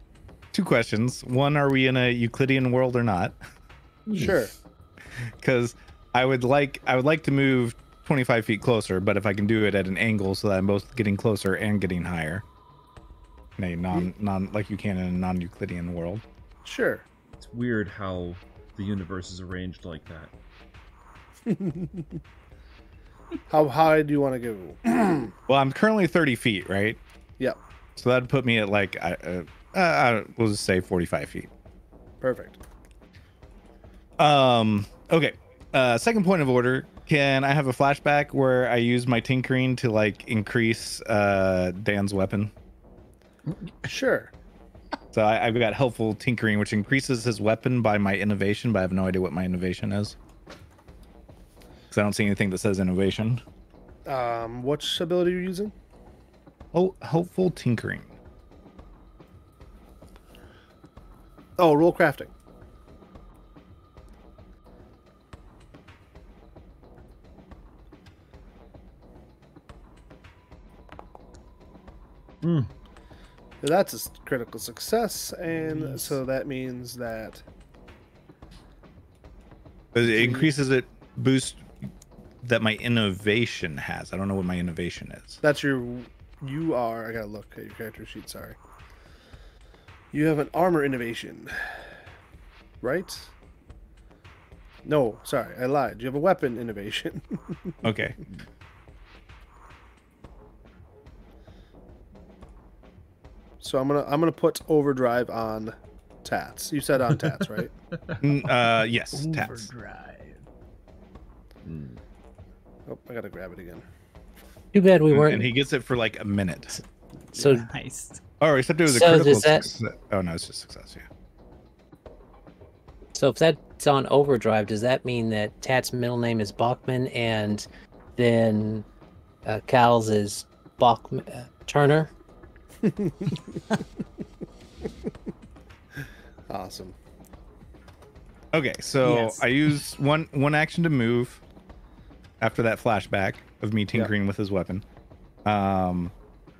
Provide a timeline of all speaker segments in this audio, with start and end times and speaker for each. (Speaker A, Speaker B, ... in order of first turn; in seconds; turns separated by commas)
Speaker A: 0.5-3.3, Speaker B: 4.1-4.5, Speaker A: 5.4-12.4, Speaker A: 13.6-16.2, Speaker B: 16.6-17.0, Speaker C: 17.4-20.3, Speaker B: 21.4-22.2, Speaker B: 23.5-25.3, Speaker A: 25.5-27.0, Speaker A: 27.9-31.5, Speaker B: 32.2-32.6, Speaker A: 34.2-42.5, Speaker B: 43.8-44.3, Speaker A: 45.1-50.1, Speaker A: 51.9-53.4, Speaker B: 54.0-55.7, Speaker A: 56.7-58.1, Speaker B: 61.6-62.3, Speaker C: 72.4-72.7, Speaker B: 73.6-77.4, Speaker D: 75.7-76.1, Speaker A: 79.9-81.9, Speaker B: 80.0-80.5, Speaker A: 82.4-85.4, Speaker B: 85.4-88.6, Speaker B: 90.1-91.5, Speaker B: 92.8-93.3, Speaker B: 94.8-97.9, Speaker A: 97.8-98.2, Speaker B: 103.6-107.7, Speaker A: 108.2-109.7, Speaker D: 109.1-110.4, Speaker C: 111.6-112.0, Speaker B: 112.9-113.8, Speaker E: 114.7-115.5, Speaker A: 115.1-116.8, Speaker E: 117.3-117.6, Speaker D: 117.4-118.2, Speaker A: 118.4-121.0, Speaker E: 118.8-119.7, Speaker E: 123.1-127.6, Speaker E: 128.2-128.8, Speaker E: 129.4-132.1, Speaker B: 132.8-133.5, Speaker B: 136.5-136.9, Speaker A: 138.5-141.4, Speaker D: 139.0-139.4, Speaker A: 142.4-144.8, Speaker A: 145.4-146.1